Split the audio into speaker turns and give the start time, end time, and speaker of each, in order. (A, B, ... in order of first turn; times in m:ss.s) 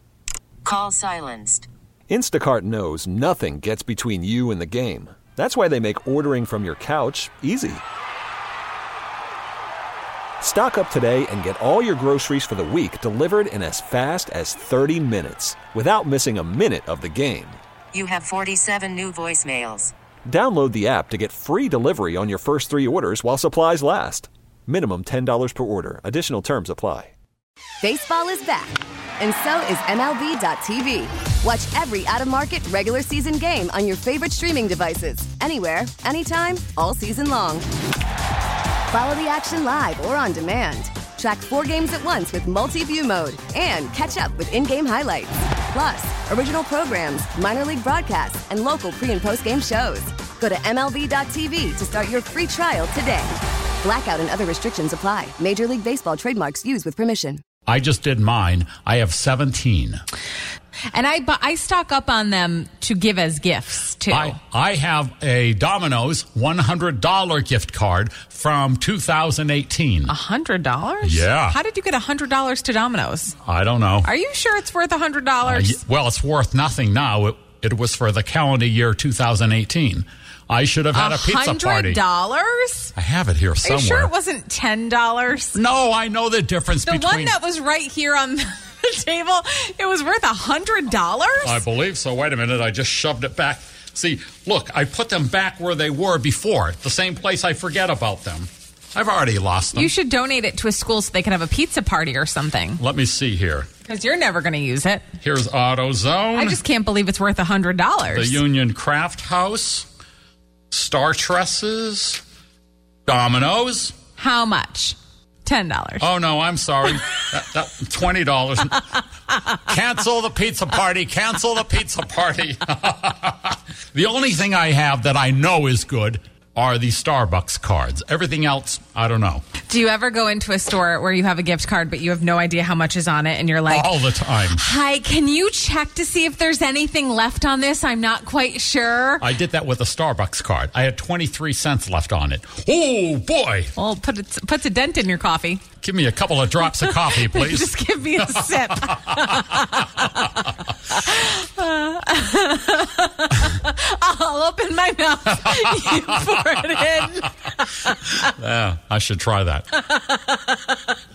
0:00.6-0:01.7 A
0:02.1-0:07.8 B
0:10.4-0:17.6 B
0:17.9-0:19.9 A
0:20.3-0:27.1 B
0:27.8-0:37.6 C
0:38.9-0:57.4 C
0:57.7-1:00.0 D
1:00.9-1:04.4 E
1:04.1-1:10.1 D
1:10.1-1:13.4 E
1:11.0-1:11.6 D
1:13.4-1:14.1 D
1:14.0-1:15.8 E
1:15.5-1:22.0 D
1:20.9-1:23.0 E
1:23.0-1:24.1 D
1:23.6-1:25.6 E
1:25.6-1:27.4 D
1:26.8-1:31.6 E
1:31.4-1:39.9 D
1:39.8-1:42.8 E
1:42.8-1:43.7 D
1:43.8-1:45.1 E
1:45.2-1:46.6 D
1:46.3-1:48.4 E
1:48.1-1:49.9 D
1:50.7-1:52.2 D
1:53.1-1:54.0 D
1:54.2-1:56.1 E
1:56.0-1:59.0 D
1:59.5-2:09.4 D
2:09.6-2:19.3 E
2:13.7-2:14.6 D
2:19.2-2:23.7 D
2:23.8-2:25.7 E
2:25.8-2:29.5 D
2:26.7-2:30.4 E
2:30.9-2:38.3 E
2:35.8-2:36.2 D
2:38.2-2:39.7 D
2:39.9-2:40.4 E